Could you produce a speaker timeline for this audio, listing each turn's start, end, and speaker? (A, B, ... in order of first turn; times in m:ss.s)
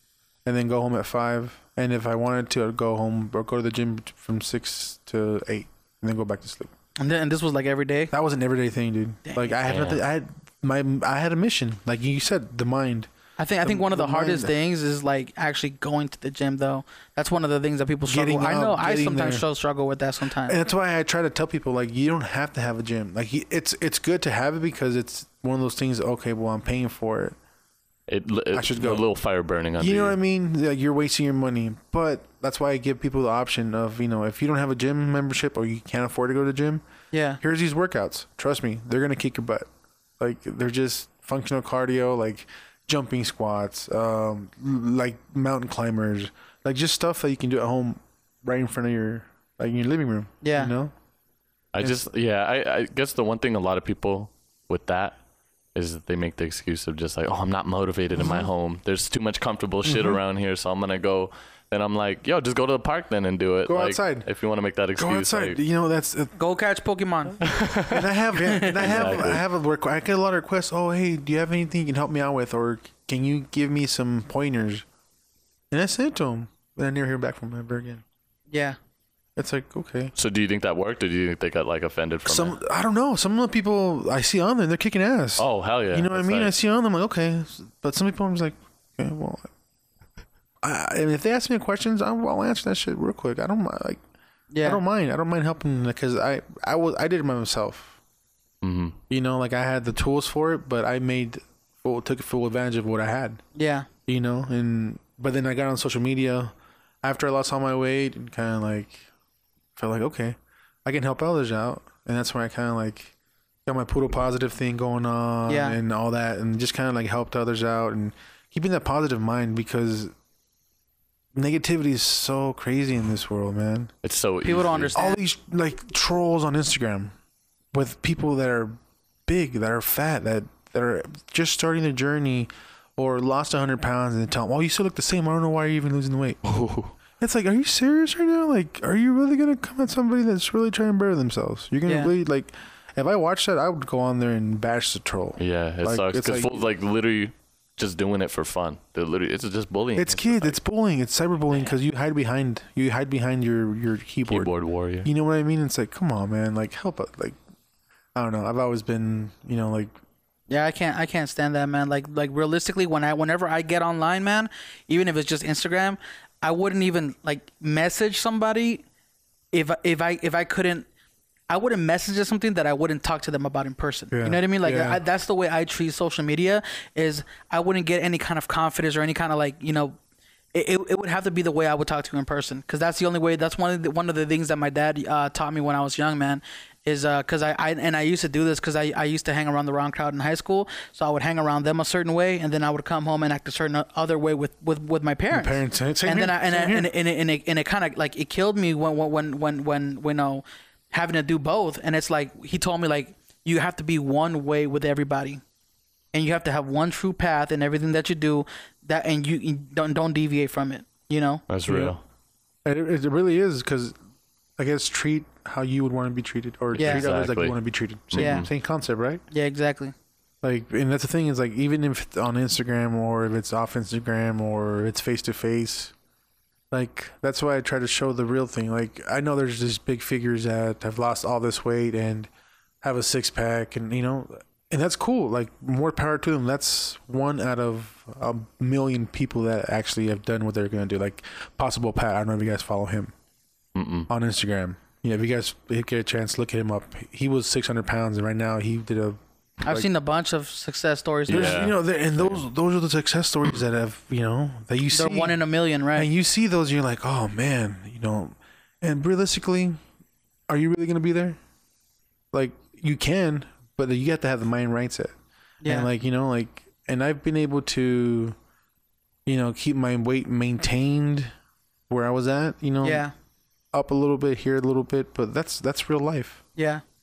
0:00.4-0:06.7 A
0:07.0-0:08.1 B
0:08.1-0:13.1 A
0:09.3-0:09.6 B
0:09.6-0:10.0 C
0:13.4-0:20.6 B
0:13.6-0:14.5 A
0:18.1-0:19.5 A
0:20.5-0:27.4 A
0:28.1-0:30.2 C
0:28.5-0:29.1 A
0:29.8-0:36.8 A
0:37.1-0:37.4 B
0:37.4-0:39.7 A
0:40.2-0:50.9 A
0:50.4-0:50.7 B
0:51.7-0:55.2 C
0:51.8-0:52.1 A
0:55.8-1:05.6 C
0:58.2-0:58.5 A
0:59.8-1:00.2 A
1:03.7-1:04.3 A
1:05.0-1:06.4 A
1:06.4-1:07.4 B
1:07.4-1:08.1 C
1:07.9-1:14.8 A
1:08.4-1:08.8 B
1:08.7-1:09.4 C
1:15.7-1:18.0 A
1:18.5-1:18.8 B
1:19.4-1:20.1 A
1:20.2-1:22.6 C
1:22.3-1:29.5 A
1:25.4-1:26.5 C
1:30.6-1:34.0 A
1:34.5-1:34.8 B
1:34.6-1:38.0 A
1:38.6-1:39.0 C
1:39.1-1:43.4 A
1:43.6-1:43.9 B
1:44.1-1:49.0 A
1:49.8-1:53.1 A
1:53.7-2:00.1 A
1:55.5-1:55.8 B
2:01.4-2:03.9 A
2:04.0-2:05.0 C
2:04.4-2:05.2 B
2:05.0-2:07.2 A
2:07.7-2:08.8 A
2:09.3-2:16.5 A
2:16.4-2:16.9 C
2:17.2-2:26.7 A
2:21.9-2:22.1 B
2:25.4-2:30.6 C
2:30.0-2:34.5 A
2:34.3-2:35.1 C
2:35.0-2:37.4 A
2:38.2-2:39.9 A
2:40.5-2:48.8 B
2:49.5-2:50.9 B
2:51.5-3:00.0 B
2:54.1-2:55.0 A
3:00.5-3:25.4 B
3:15.3-3:16.9 A
3:26.1-3:31.4 B
3:31.5-3:32.0 C
3:31.7-3:32.0 A
3:32.6-3:34.0 A
3:34.6-3:39.2 A
3:36.7-3:37.6 C
3:36.8-3:37.0 B
3:38.1-3:38.5 C
3:38.2-3:38.5 B
3:39.3-3:39.9 B
3:40.4-3:45.9 A
3:46.7-3:52.3 A
3:52.8-4:03.1 A
4:03.8-4:04.1 C
4:04.1-4:09.9 A
4:09.6-4:11.7 B
4:11.3-4:12.4 C
4:11.3-4:15.4 A
4:14.9-4:16.1 B
4:15.9-4:19.8 A
4:20.5-4:21.4 A
4:22.3-4:28.4 A
4:25.6-4:25.9 B
4:29.3-4:31.3 A
4:31.9-4:33.0 A
4:32.8-4:33.1 B
4:33.7-4:36.4 A
4:36.6-4:36.8 B